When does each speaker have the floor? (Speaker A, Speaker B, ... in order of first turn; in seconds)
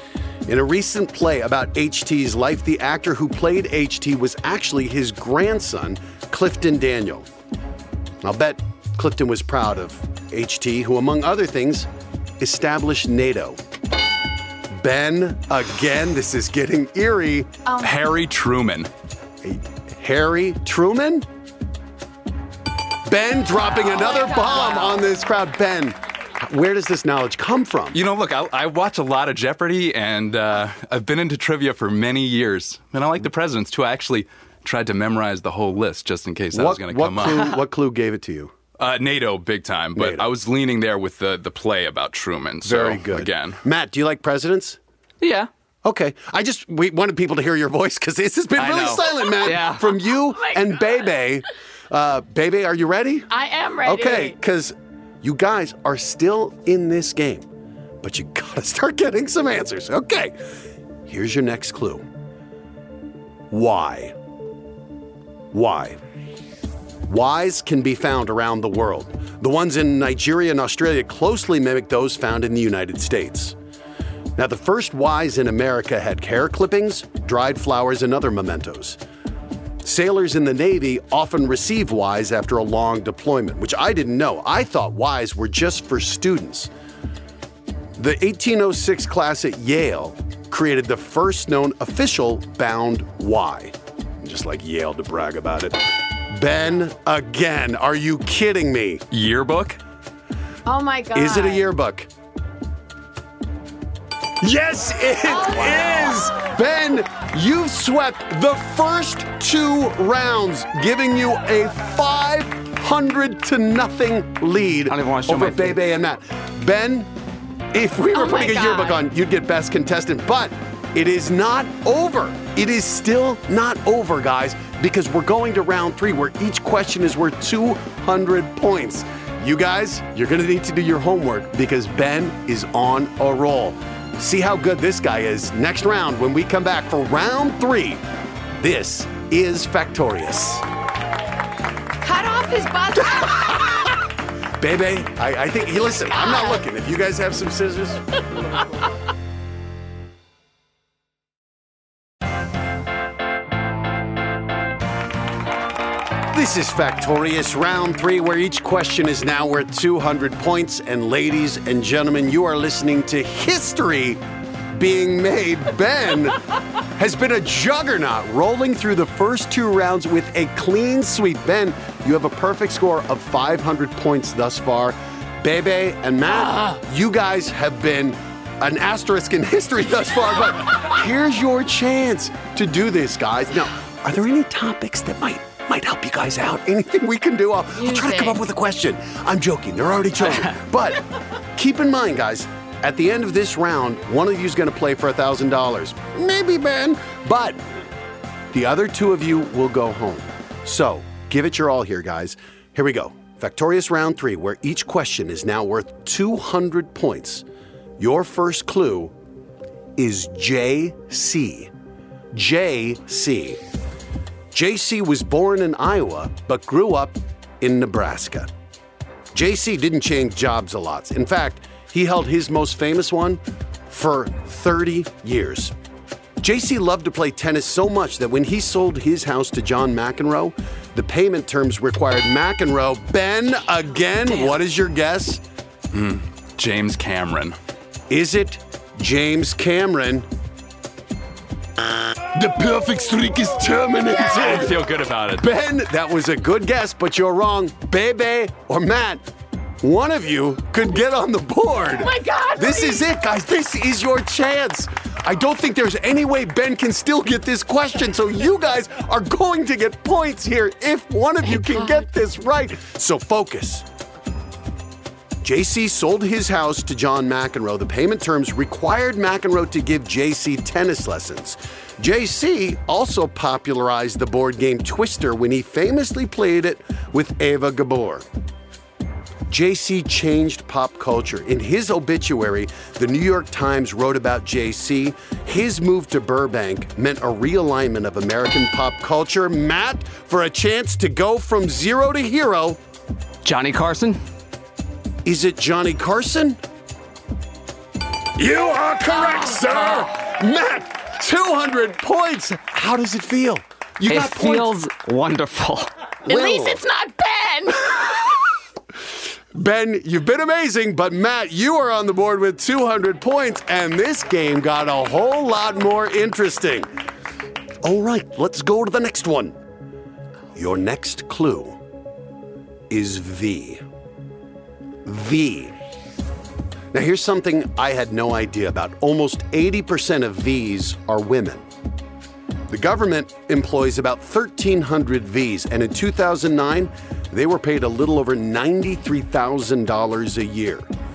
Speaker A: 0.5-7.3, 8.2-11.9, 12.4-13.6, 14.8-17.5, 19.4-21.2, 23.1-28.0, 36.5-38.5, 39.9-40.2, 42.6-44.8, 45.8-53.3, 53.8-57.4, 58.0-60.4, 61.0-62.0, 63.5-64.1, 65.5-66.0, 67.1-73.5, 74.4-79.0, 79.8-86.7, 88.0-95.8, 96.3-99.0, 101.1-102.1, 104.4-117.1, 117.7-138.0, 138.6-140.6, 144.6-148.2, 156.3-164.2, 164.7-197.6, 198.5-207.4, 208.0-209.1, 210.0-211.7, 212.3-213.6, 214.5-218.5, 219.3-225.7, 226.4-235.4, 238.1-240.2, 242.3-244.8, 245.3-249.2, 249.8-263.9, 265.4-278.2, 279.5-292.8, 295.2-296.6, 298.4-304.7, 306.2-306.8, 309.5-316.9, 317.8-319.5, 320.5-321.8, 322.9-323.8, 325.0-325.7, 326.9-331.6, 332.7-340.9
Speaker B: 17.6-18.0, 23.7-25.0, 50.5-50.9, 53.3-54.4, 100.7-101.7, 105.4-106.1, 118.1-119.0, 142.0-144.0, 146.1-146.6, 187.8-188.4, 251.9-253.1, 306.3-308.5
Speaker C: 17.8-18.9, 27.9-37.5, 38.8-43.6, 99.1-99.8, 235.9-237.6, 244.3-245.4
Speaker D: 45.2-45.5, 48.6-50.1, 114.8-115.8, 293.4-294.2, 304.1-305.9